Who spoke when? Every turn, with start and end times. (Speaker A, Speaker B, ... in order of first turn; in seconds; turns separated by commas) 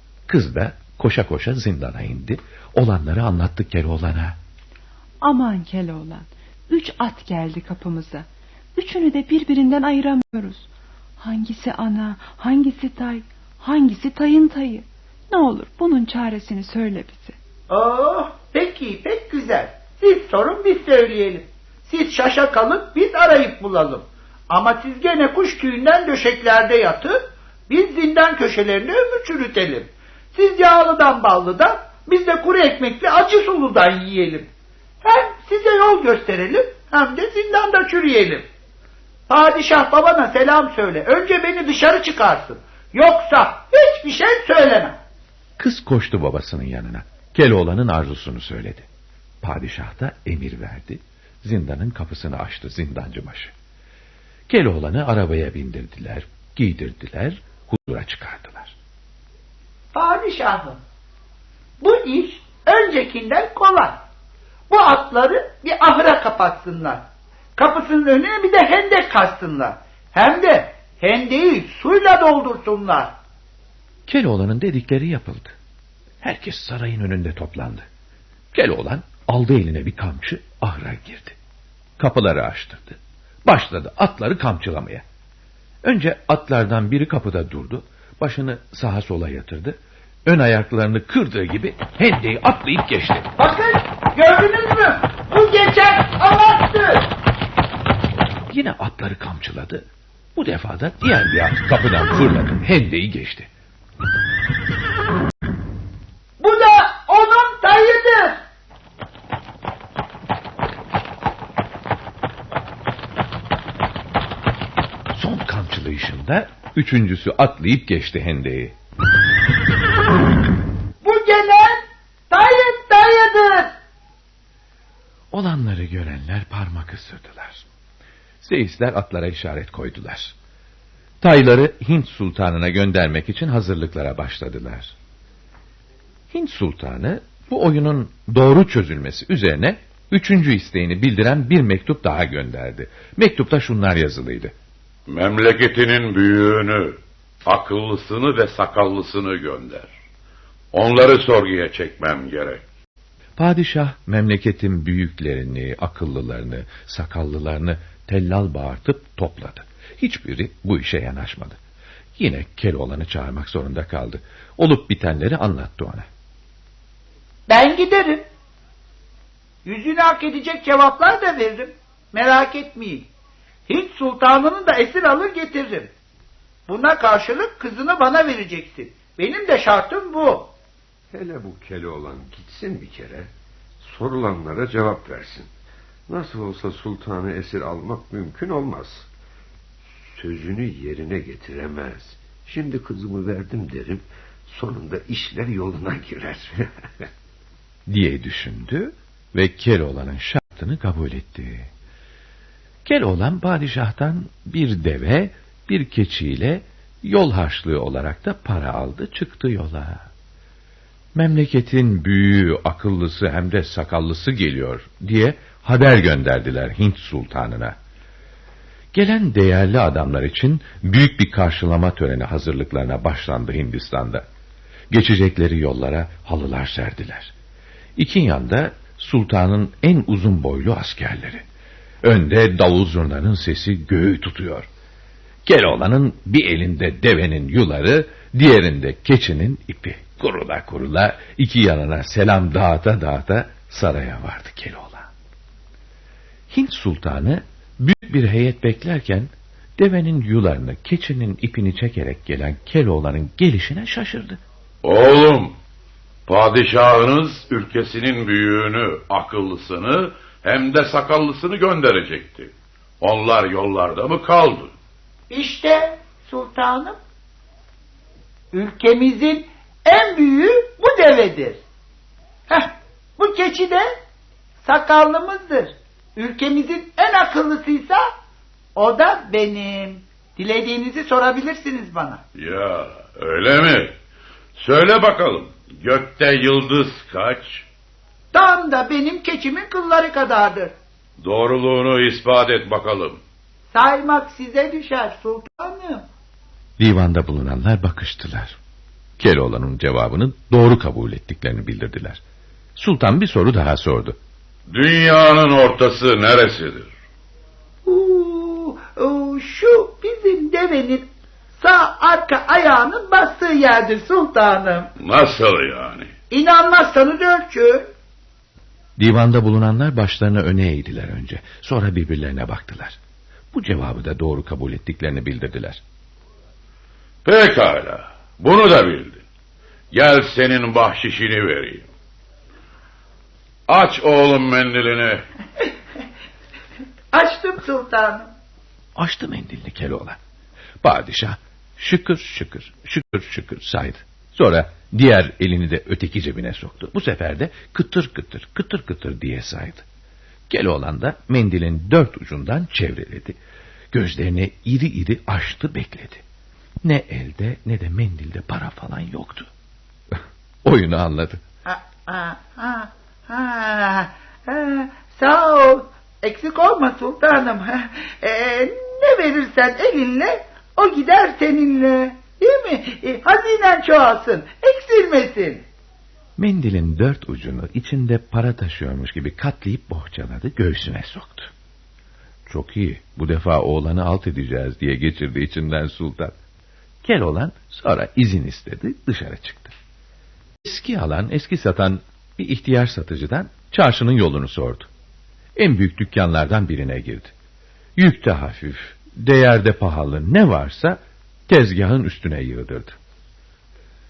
Speaker A: 0.3-4.4, Speaker B: 5.2-10.7, Speaker B: 11.2-17.3, Speaker C: 17.7-34.5, Speaker C: 35.0-38.5, Speaker C: 39.3-44.9, Speaker A: 45.6-48.9, Speaker A: 49.4-53.5, Speaker A: 54.5-58.7, Speaker C: 59.9-60.8, Speaker C: 61.8-64.0, Speaker C: 64.7-67.0, Speaker C: 67.6-73.2, Speaker A: 74.1-75.5, Speaker A: 76.2-77.8, Speaker A: 78.5-81.4, Speaker A: 82.0-85.0, Speaker A: 85.8-89.7, Speaker A: 90.2-93.3, Speaker C: 93.4-97.1, Speaker A: 98.5-99.8, Speaker A: 100.3-103.5, Speaker C: 106.4-108.4, Speaker A: 115.1-118.7, Speaker C: 121.0-123.7, Speaker A: 125.3-127.7, Speaker A: 128.4-130.3, Speaker A: 131.2-134.9, Speaker A: 136.3-144.5, Speaker D: 145.1-149.9, Speaker D: 150.7-152.6, Speaker A: 153.4-161.6, Speaker A: 162.2-166.1, Speaker C: 167.5-168.2, Speaker C: 169.6-173.1, Speaker C: 173.7-175.9, Speaker C: 176.7-180.5, Speaker E: 181.1-183.3, Speaker E: 183.8-185.5, Speaker E: 186.1-189.1, Speaker E: 190.1-196.6, Speaker A: 197.9-201.7, Speaker A: 202.8-210.1, Speaker A: 211.1-217.8, Speaker A: 218.9-224.2, Speaker A: 224.9-227.3, Speaker A: 228.0-231.4, Speaker A: 232.0-234.7, Speaker A: 235.4-245.1, Speaker A: 246.5-254.4, Speaker D: 254.8-255.5, Speaker D: 256.3-264.7, Speaker C: 265.3-267.0, Speaker C: 268.5-271.6, Speaker C: 272.5-273.9, Speaker C: 274.6-278.1, Speaker C: 278.7-282.2, Speaker D: 282.3-283.9, Speaker D: 284.6-287.6, Speaker C: 288.3-290.7, Speaker D: 291.2-293.2, Speaker C: 293.7-296.0, Speaker A: 296.8-298.6, Speaker A: 299.2-302.2, Speaker A: 302.8-304.2, Speaker D: 304.7-306.9, Speaker C: 307.8-314.9, Speaker D: 315.0-316.1, Speaker C: 316.3-317.9, Speaker A: 319.0-323.0, Speaker A: 323.5-325.8, Speaker D: 327.2-329.2, Speaker D: 329.9-331.9, Speaker D: 333.7-335.2, Speaker C: 337.1-338.3, Speaker A: 338.9-340.2, Speaker A: 340.8-349.8, Speaker A: 350.5-353.4, Speaker A: 353.9-356.2, Speaker A: 356.8-359.5, Speaker A: 360.1-361.4, Speaker C: 361.6-375.6, Speaker A: 376.4-381.5, Speaker A: 382.4-386.3, Speaker A: 387.0-389.7, Speaker A: 390.6-394.9, Speaker A: 395.6-397.3, Speaker A: 398.0-402.9